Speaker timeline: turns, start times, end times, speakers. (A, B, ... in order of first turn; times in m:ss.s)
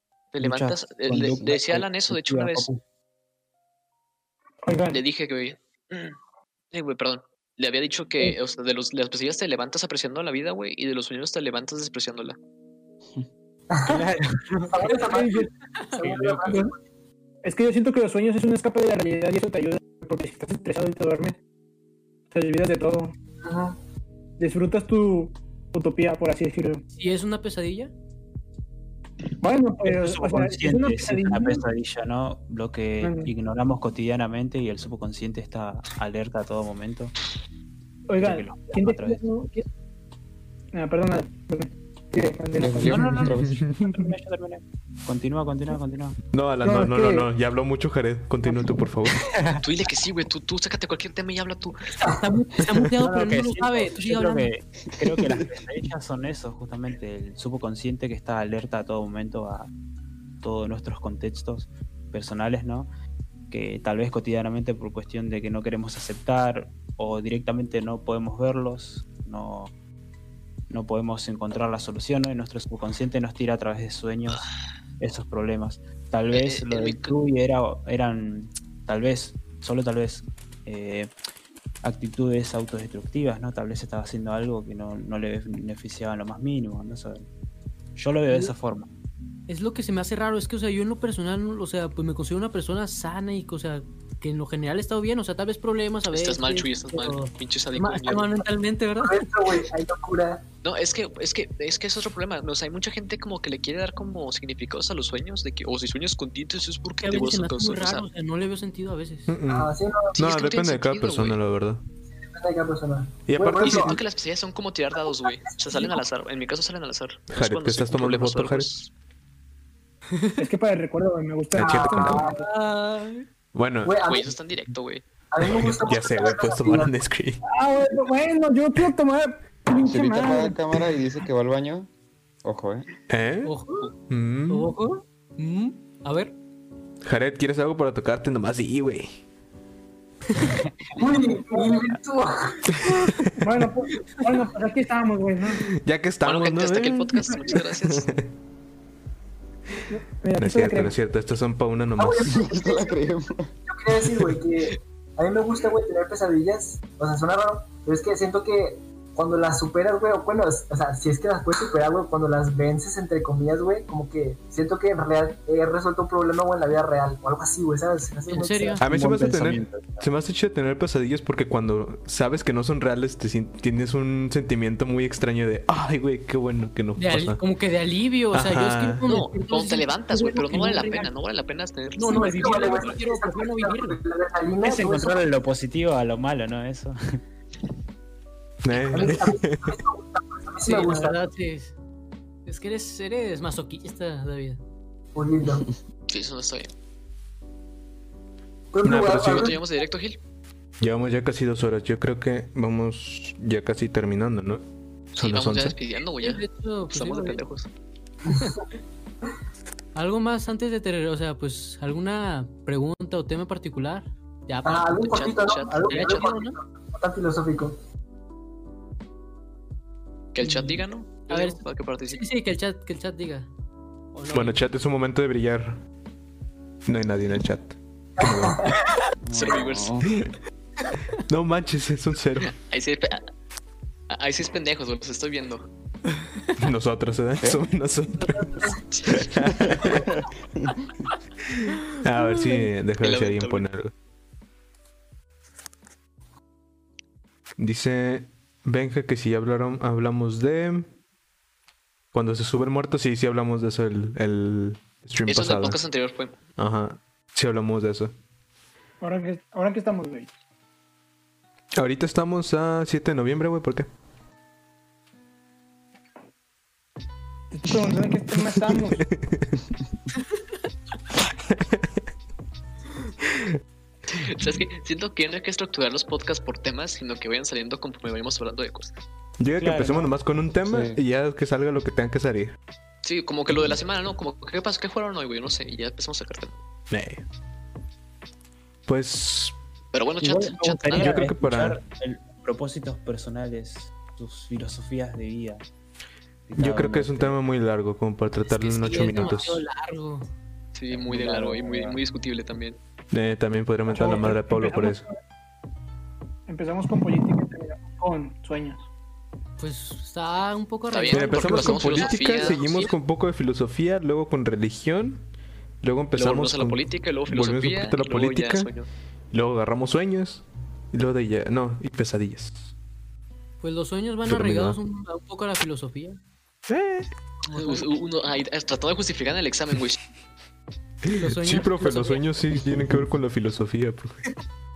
0:00.3-0:02.7 A
0:00.4-0:02.8 B
0:04.6-0:05.0 C
0:04.9-0:06.2 A
0:06.7-0:12.4 A
0:13.7-0:14.0 D
0:13.9-0:15.0 B
0:14.7-0:16.7 D
0:15.0-0:15.4 C
0:16.0-0:16.4 B
0:17.4-0:21.4 C
0:22.3-0:23.1 C
0:23.4-0:23.8 D
0:24.4-0:26.8 C
0:26.9-0:27.9 E
0:29.4-0:31.6 C
0:29.8-0:37.1 B
0:33.0-0:33.3 C
0:38.1-0:39.6 C
0:38.2-0:39.3 B
0:40.7-0:43.3 C
0:42.6-0:43.7 F
0:42.7-0:46.2 B
0:46.3-0:49.2 G
0:46.6-0:47.3 C
0:49.2-0:49.6 B
0:49.6-0:51.8 A
0:52.0-0:54.5 E
0:53.0-0:59.7 B
1:00.4-1:02.9 B
1:03.5-1:09.7 B
1:10.7-1:14.4 B
1:15.0-1:21.1 B
1:16.3-1:17.1 A
1:21.8-1:27.3 B
1:28.0-1:28.9 B
1:29.5-1:39.6 E
1:36.1-1:38.4 A
1:39.0-1:40.4 D
1:40.6-1:48.1 A
1:47.0-1:49.4 E
1:49.3-1:51.8 G
1:49.4-1:50.2 D
1:50.2-1:51.4 A
1:52.2-1:54.0 D
1:53.3-1:54.0 G
1:53.6-1:58.9 A
1:55.0-1:56.0 D
1:57.3-1:58.7 G
2:00.1-2:00.5 E
2:00.4-2:02.4 C
2:01.5-2:02.2 G
2:01.6-2:02.5 D
2:02.3-2:03.2 E
2:03.5-2:04.0 G
2:03.8-2:04.3 D
2:04.0-2:05.0 A
2:05.3-2:06.9 D
2:05.4-2:07.4 G
2:07.5-2:10.9 C
2:09.7-2:11.9 F
2:12.4-2:12.9 F
2:13.1-2:13.5 G
2:13.4-2:13.9 E
2:14.1-2:14.7 G
2:14.5-2:16.3 E
2:17.0-2:19.2 G
2:20.3-2:20.6 G
2:21.0-2:22.7 D
2:22.7-2:23.3 G
2:23.3-2:25.6 C
2:25.7-2:28.3 G
2:26.2-2:28.1 A
2:29.9-2:30.9 C
2:30.4-2:32.4 G
2:32.0-2:33.0 D
2:32.2-2:33.5 F
2:33.7-2:48.8 D
2:48.3-2:48.8 E
2:48.8-2:50.1 B
2:48.8-2:57.4 G
2:57.0-3:01.1 E
2:58.3-2:59.0 G
2:59.1-3:03.0 A
3:01.9-3:04.0 E
3:02.0-3:05.3 D
3:04.6-3:07.2 B
3:08.6-3:09.8 G
3:08.7-3:09.1 A
3:08.9-3:11.2 D
3:10.6-3:11.7 E
3:12.4-3:14.6 E
3:15.1-3:15.7 D
3:16.1-3:16.7 A
3:18.7-3:19.6 D
3:18.8-3:19.5 G
3:19.1-3:20.2 A
3:20.8-3:24.6 G
3:25.1-3:27.7 A
3:25.2-3:25.8 G
3:26.2-3:27.4 E
3:28.2-3:28.6 D
3:28.3-3:28.6 E
3:29.9-3:35.2 E
3:34.6-3:37.8 D
3:35.0-3:36.3 A
3:35.9-3:36.6 E
3:40.3-3:42.2 A
3:40.4-3:43.5 E
3:44.1-3:44.6 E
3:44.3-3:45.8 G
3:46.8-3:48.7 G
3:48.2-3:48.8 D
3:49.2-3:50.1 F
3:49.3-3:49.9 A
3:51.2-3:52.5 G
3:52.4-3:53.3 A
3:54.1-3:55.7 A
3:56.6-4:00.1 G
3:58.2-3:58.8 E
3:58.9-3:59.1 A
3:59.7-4:00.2 F
4:01.5-4:03.9 G
4:02.2-4:02.6 E
4:03.0-4:03.6 A
4:07.6-4:10.9 G
4:12.1-4:15.8 G
4:15.3-4:16.4 A
4:16.6-4:18.1 G
4:19.0-4:20.3 C
4:21.8-4:23.9 G
4:27.5-4:29.0 C
4:29.0-4:29.4 G
4:31.5-4:31.9 G
4:33.2-4:33.5 G
4:34.1-4:38.9 A
4:39.4-4:42.5 G
4:39.6-4:40.0 C
4:40.6-4:41.0 F
4:43.0-4:46.6 A
4:46.9-4:47.2 G
4:48.9-4:49.6 G
4:49.9-4:51.2 A
4:50.2-4:55.6 B
4:50.9-4:51.8 G
4:56.5-4:57.4 B
4:56.6-4:59.6 G
4:58.4-5:00.3 E
5:00.7-5:02.8 A
5:00.9-5:02.0 B
5:03.1-5:05.0 G
5:03.9-5:05.2 C
5:06.5-5:08.8 C
5:09.6-5:12.8 E
5:10.9-5:12.9 A
5:11.1-5:15.2 G
5:15.8-5:18.7 G
5:16.1-5:18.9 A
5:19.3-5:22.7 G
5:23.6-5:26.2 E
5:24.2-5:24.8 G
5:26.7-5:27.1 G
5:27.5-5:27.8 E
5:27.5-5:30.0 A
5:31.1-5:34.2 G
5:31.1-5:32.3 E